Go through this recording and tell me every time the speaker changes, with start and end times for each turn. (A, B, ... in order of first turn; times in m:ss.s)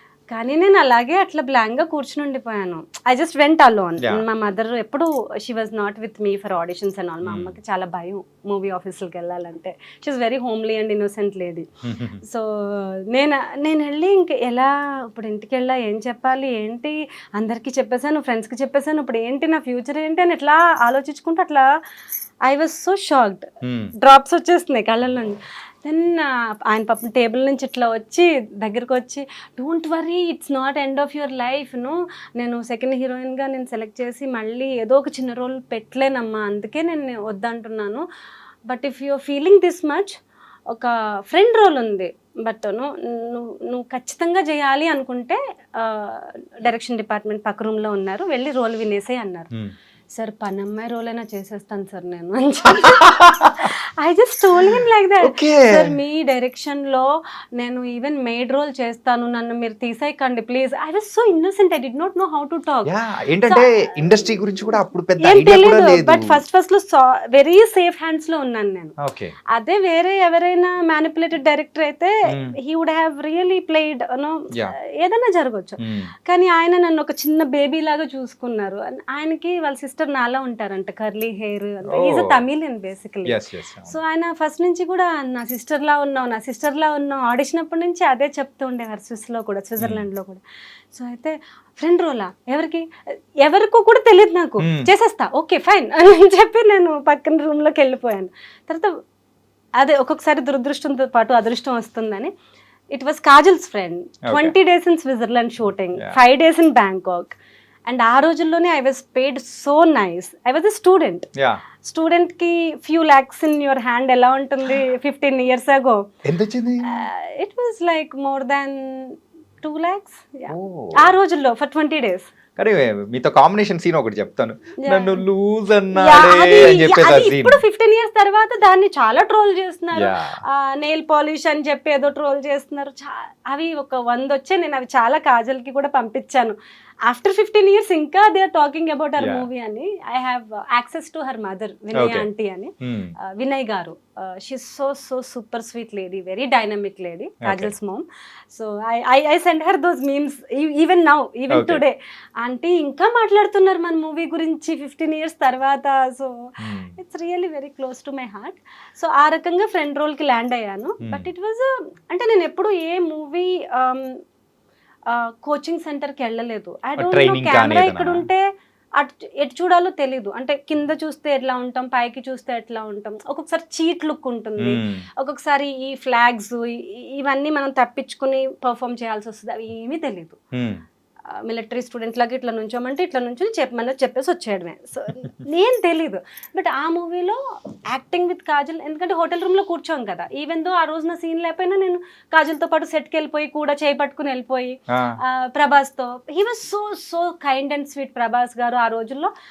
0:00.3-0:11.6 A
0:07.2-0:07.6 B
0:11.8-0:12.2 B
0:12.2-0:21.6 A
0:22.4-0:23.5 A
0:23.6-0:23.9 B
0:24.0-0:38.0 A
0:38.7-0:40.1 A
0:40.7-0:49.5 A
0:50.1-1:02.9 A
0:52.7-0:53.7 B
0:54.6-0:55.9 B
1:02.8-1:06.4 B
1:03.4-1:08.9 A
1:09.0-1:09.3 B
1:09.5-1:23.4 A
1:12.3-1:12.6 B
1:15.8-1:16.1 B
1:21.9-1:22.4 B
1:23.2-1:24.0 B
1:23.9-1:30.4 A
1:29.8-1:30.0 B
1:30.9-1:32.8 A
1:33.4-1:38.9 A
1:34.6-1:34.9 B
1:39.8-1:42.3 A
1:42.9-1:47.3 A
1:44.3-1:44.5 B
1:47.9-1:51.3 A
1:51.8-1:56.1 A
1:56.2-1:57.0 B
1:56.8-2:02.3 A
2:00.5-2:01.1 B
2:02.6-2:07.6 B
2:04.8-2:05.2 A
2:05.9-2:16.5 A
2:09.9-2:10.4 B
2:17.0-2:44.2 A
2:19.2-2:19.5 B
2:21.9-2:22.3 B
2:22.8-2:23.1 B
2:27.4-2:27.7 B
2:31.5-2:31.8 B
2:36.6-2:37.0 B
2:41.0-2:41.3 B
2:45.1-2:48.4 A
2:47.0-2:48.2 B
2:49.0-3:00.4 A
2:54.6-2:55.0 B
3:00.5-3:00.8 B
3:01.3-3:19.3 A
3:14.9-3:15.2 B